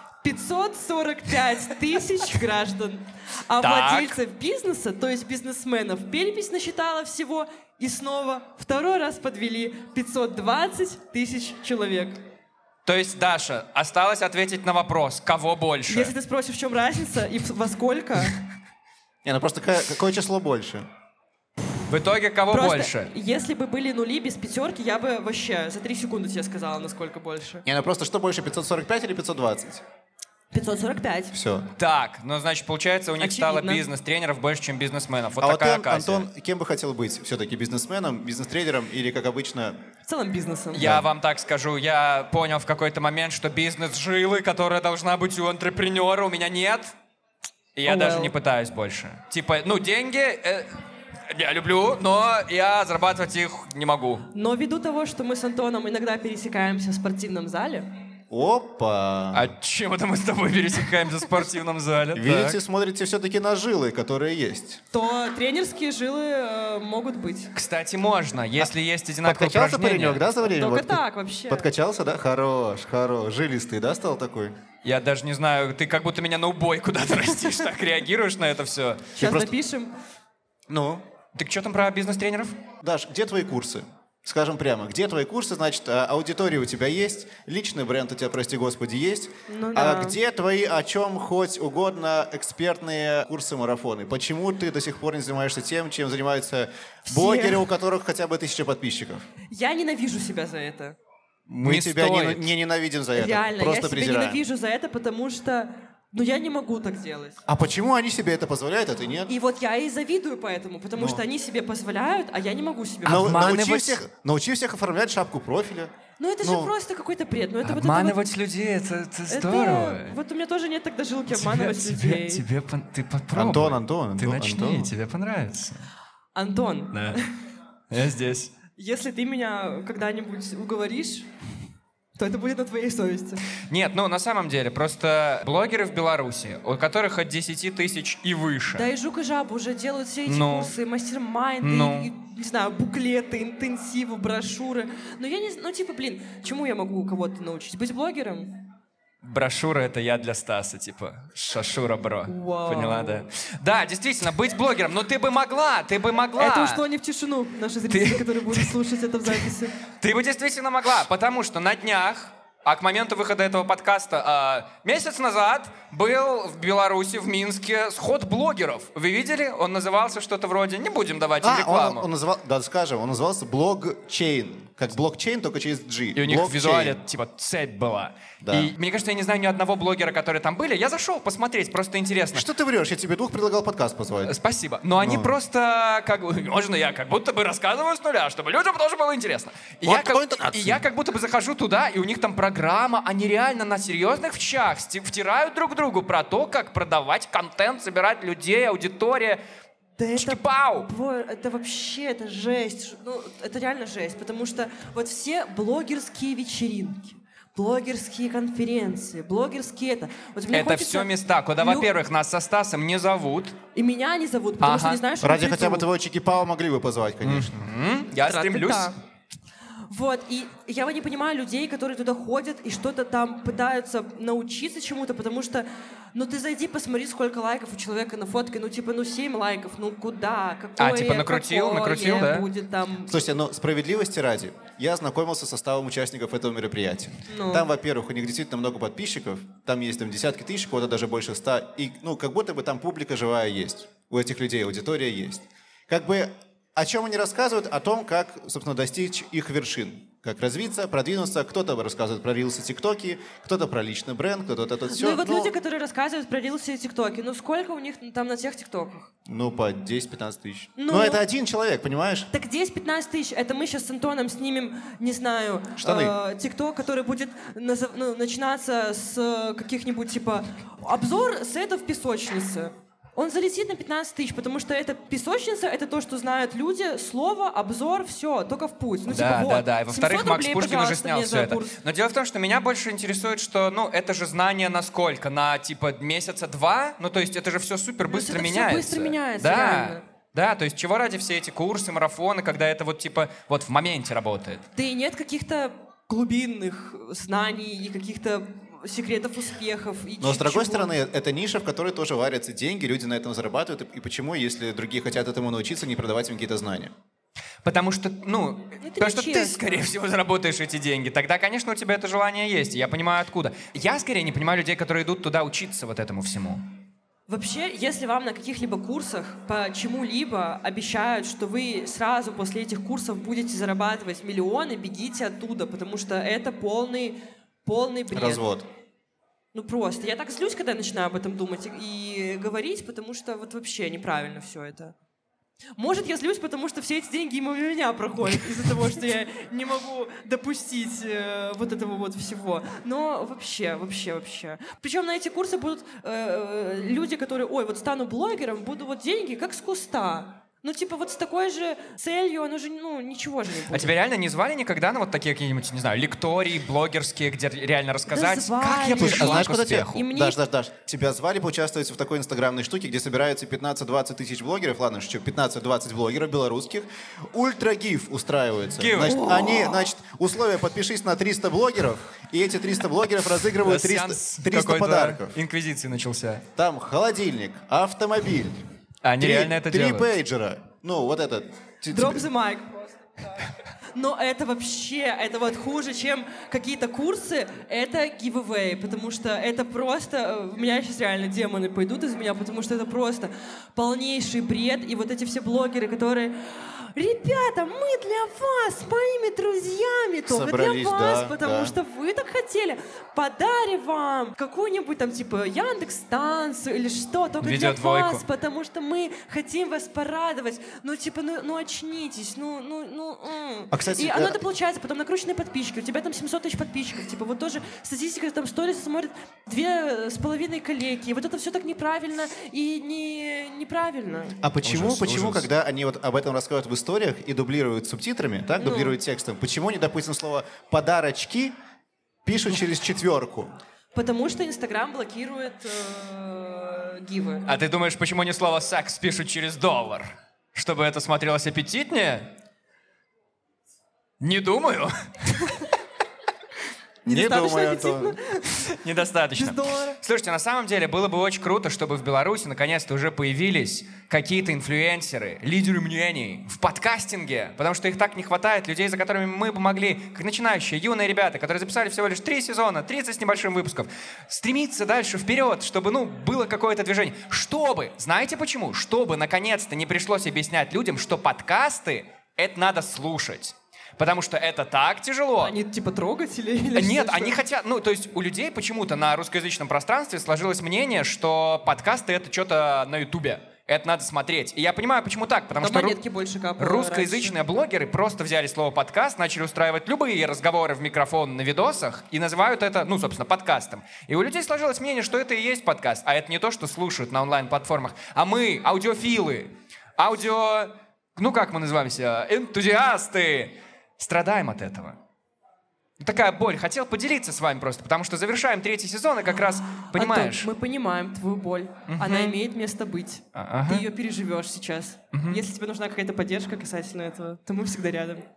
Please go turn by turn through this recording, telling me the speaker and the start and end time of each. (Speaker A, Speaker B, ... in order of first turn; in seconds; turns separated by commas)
Speaker A: 0.2-12.2, Speaker B: 3.6-4.2, Speaker B: 12.9-16.1, Speaker A: 15.9-18.4, Speaker C: 19.2-20.9, Speaker B: 21.9-23.1, Speaker A: 22.5-27.6, Speaker C: 27.6-29.8, Speaker A: 30.5-31.4, Speaker C: 31.3-31.7, Speaker B: 31.8-36.3, Speaker A: 33.2-33.9, Speaker C: 35.4-39.8, Speaker A: 40.1-40.9, Speaker B: 40.7-46.9, Speaker C: 40.8-41.1, Speaker B: 47.8-50.7, Speaker A: 47.9-48.3, Speaker B: 51.3-54.3, Speaker A: 54.3-58.0, Speaker C: 58.3-59.5, Speaker B: 59.3-62.6, Speaker C: 62.1-64.8, Speaker A: 64.9-67.5, Speaker B: 67.5-70.3, Speaker C: 69.2-74.5, Speaker A: 70.4-71.7, Speaker B: 74.8-79.2, Speaker A: 79.2-79.9, Speaker C: 79.2-79.5, Speaker C: 80.7-81.0, Speaker B: 81.3-82.6, Speaker C: 82.8-99.2, Speaker A: 89.5-90.2, Speaker A: 97.1-97.7, Speaker A: 99.5-101.0, Speaker C: 101.5-104.4, Speaker B: 101.6-102.5, Speaker A: 103.1-107.4, Speaker C: 107.5-109.3, Speaker A: 109.3-113.5, Speaker C: 111.0-111.2, Speaker B: 113.0-114.0, Speaker C: 113.0-116.7, Speaker A: 116.2-118.2, Speaker B: 117.6-120.2, Speaker A: 119.3-122.4, Speaker B: 121.3-125.9, Speaker C: 123.3-124.9, Speaker A: 126.3-127.3, Speaker B: 126.9-127.2, Speaker B: 127.9-128.5, Speaker A: 128.8-131.3, Speaker A: 132.2-133.4, Speaker B: 133.7-138.9, Speaker A: 138.8-148.7, Speaker B: 140.3-140.7, Speaker B: 141.6-142.1, Speaker B: 149.2-156.8, Speaker A: 152.3-153.3, Speaker A: 156.4-159.8, Speaker B: 157.9-158.8, Speaker B: 159.3-172.1, Speaker C: 171.4-177.0, Speaker B: 176.2-182.5, Speaker C: 178.4-178.7, Speaker C: 182.3-184.3, Speaker B: 184.3-199.4, Speaker C: 185.0-185.3, Speaker C: 189.8-190.8, Speaker A: 200.0-211.9, Speaker B: 200.2-200.9, Speaker B: 210.5-213.6, Speaker A: 213.8-215.9, Speaker B: 214.6-215.0, Speaker C: 215.2-217.7, Speaker B: 217.2-218.9, Speaker A: 218.2-219.0, Speaker A: 219.9-233.2, Speaker B: 230.8-232.5, Speaker C: 233.1-255.5, Speaker A: 237.3-237.7, Speaker A: 254.9-259.1, Speaker C: 259.3-262.3, Speaker A: 260.8-261.2, Speaker A: 262.3-281.8, Speaker C: 265.8-266.1, Speaker B: 279.1-294.6, Speaker A: 288.1-290.0, Speaker A: 294.8-300.9, Speaker C: 300.2-306.9, Speaker B: 307.6-316.6, Speaker A: 308.8-309.8, Speaker A: 317.3-328.4, Speaker C: 328.1-328.7, Speaker A: 329.5-334.9, Speaker A: 335.8-353.9, Speaker B: 353.7-360.0, Speaker A: 358.1-360.4, Speaker C: 359.0-375.4, Speaker B: 368.8-369.7, Speaker A: 369.1-369.5, Speaker B: 373.6-376.4, Speaker C: 376.6-378.6, Speaker B: 379.0-380.1, Speaker C: 379.2-382.3, Speaker A: 381.9-383.0, Speaker A: 383.9-424.4, Speaker C: 400.3-401.8, Speaker B: 407.4-408.2, Speaker C: 413.7-414.4, Speaker C: 424.4-431.5, Speaker B: 424.6-425.5, Speaker A: 428.6-429.0, Speaker C: 432.2-433.5, Speaker A: 433.9-437.5, Speaker B: 437.5-442.3, Speaker B: 444.2-445.6, Speaker C: 447.1-448.2, Speaker A: 447.1-448.8, Speaker B: 448.7-475.6, Speaker A: 449.4-450.0, Speaker A: 475.4-477.4, Speaker B: 476.8-486.0, Speaker A: 485.6-487.4, Speaker B: 486.6-505.0, Speaker B: 506.0-510.5, Speaker A: 509.9-518.3, Speaker B: 511.9-512.4, Speaker B: 513.4-513.9, Speaker B: 515.1-515.4